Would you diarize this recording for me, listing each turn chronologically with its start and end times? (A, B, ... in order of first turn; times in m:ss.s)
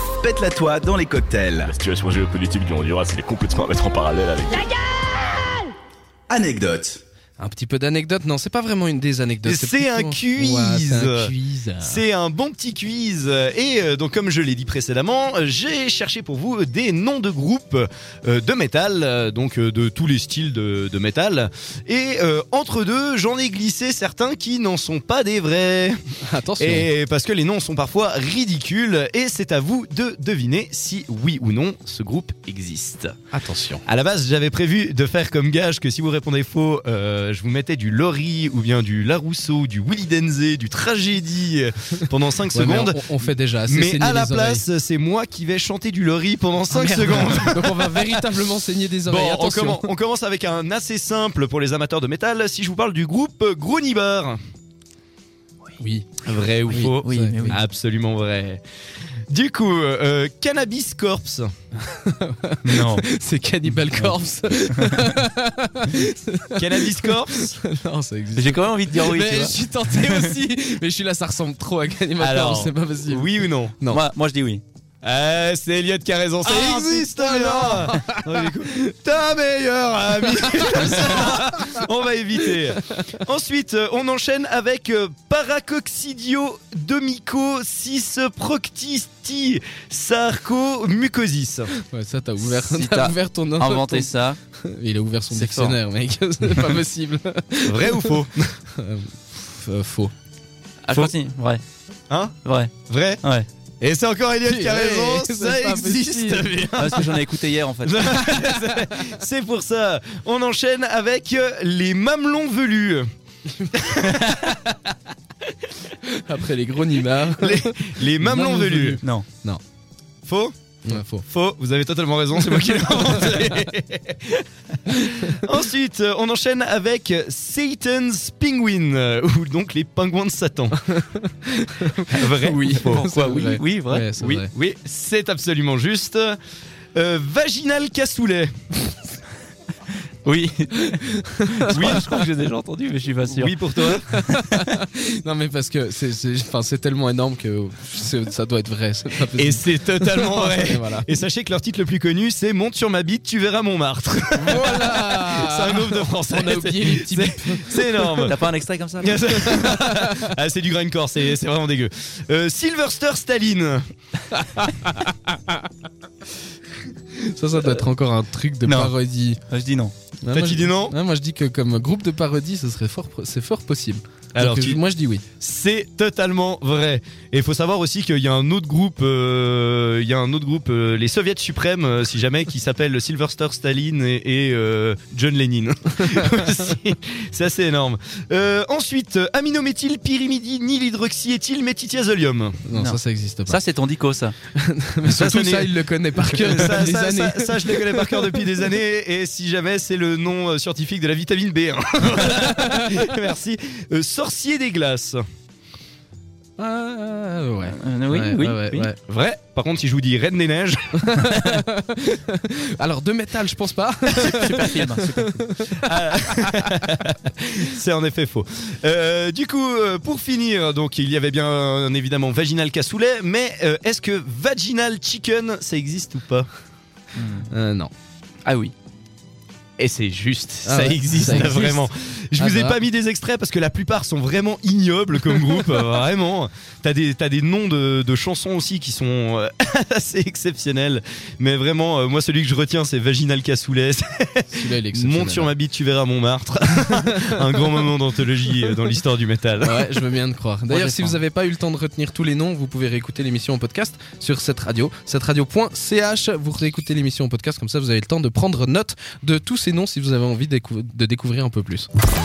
0:00.2-0:01.7 A
0:01.6-0:04.8 B
0:06.3-0:07.0 A
0:07.4-0:12.0 C
0:09.4-0:26.0 D
0:26.2-0:26.9 C
0:26.6-0:33.2 D
0:33.3-0:33.8 C
0:33.8-0:48.3 D
0:42.5-0:44.6 C
0:46.7-0:49.9 C
0:49.0-0:54.4 D
0:55.8-0:56.1 C
0:56.2-0:58.6 D
0:56.7-0:57.6 C
0:57.0-0:57.5 E
0:59.3-1:01.5 D
1:02.0-1:14.0 C
1:02.6-1:03.0 E
1:06.6-1:07.6 D
1:08.3-1:10.3 E
1:12.2-1:13.8 D
1:13.9-1:14.6 E
1:15.0-1:31.7 D
1:16.4-1:18.5 C
1:20.2-1:21.8 C
1:22.4-1:23.0 C
1:31.8-1:38.1 C
1:32.4-1:34.4 E
1:35.3-1:35.8 E
1:37.6-1:38.5 D
1:38.8-1:40.1 C
1:40.8-1:41.6 E
1:42.4-1:42.7 E
1:42.8-1:43.2 D
1:43.8-1:47.2 D
1:44.4-1:47.1 C
1:46.8-1:48.2 E
1:47.8-1:53.0 D
1:48.3-1:48.8 C
1:53.7-1:54.7 D
1:54.1-1:54.5 E
1:56.0-1:59.6 C
1:57.4-1:59.0 D
2:00.2-2:10.8 D
2:00.8-2:01.2 C
2:02.5-2:02.8 C
2:10.9-2:14.5 C
2:12.0-2:13.0 D
2:12.7-2:14.1 E
2:14.2-2:16.4 D
2:17.0-2:18.5 D
2:20.2-2:21.0 E
2:20.9-2:22.1 C
2:21.6-2:23.5 E
2:21.7-2:22.1 D
2:23.3-2:24.2 D
2:24.1-2:31.1 C
2:29.3-2:38.4 D
2:34.4-2:38.3 C
2:38.3-2:39.1 E
2:39.0-2:43.8 D
2:39.3-2:40.1 C
2:44.4-2:45.3 C
2:47.2-2:49.4 C
2:48.6-2:48.9 E
2:49.5-2:49.9 E
2:50.2-2:55.2 C
2:50.3-2:51.0 D
2:54.3-2:54.8 D
2:55.4-3:12.6 D
3:12.6-3:13.6 C
3:12.7-3:14.3 E
3:14.6-3:18.5 C
3:15.0-3:25.2 D
3:22.3-3:23.0 C
3:26.6-3:29.0 C
3:27.6-3:28.9 E
3:29.0-3:31.1 D
3:31.0-3:36.7 C
3:34.3-3:35.4 E
3:35.8-3:46.5 D
3:47.2-3:47.5 E
3:47.5-3:47.9 C
3:48.4-3:48.7 E
3:49.8-4:10.0 D
3:50.6-3:52.8 C
4:04.5-4:05.5 C
4:07.0-4:07.3 C
4:09.6-4:21.9 C
4:10.7-4:11.2 E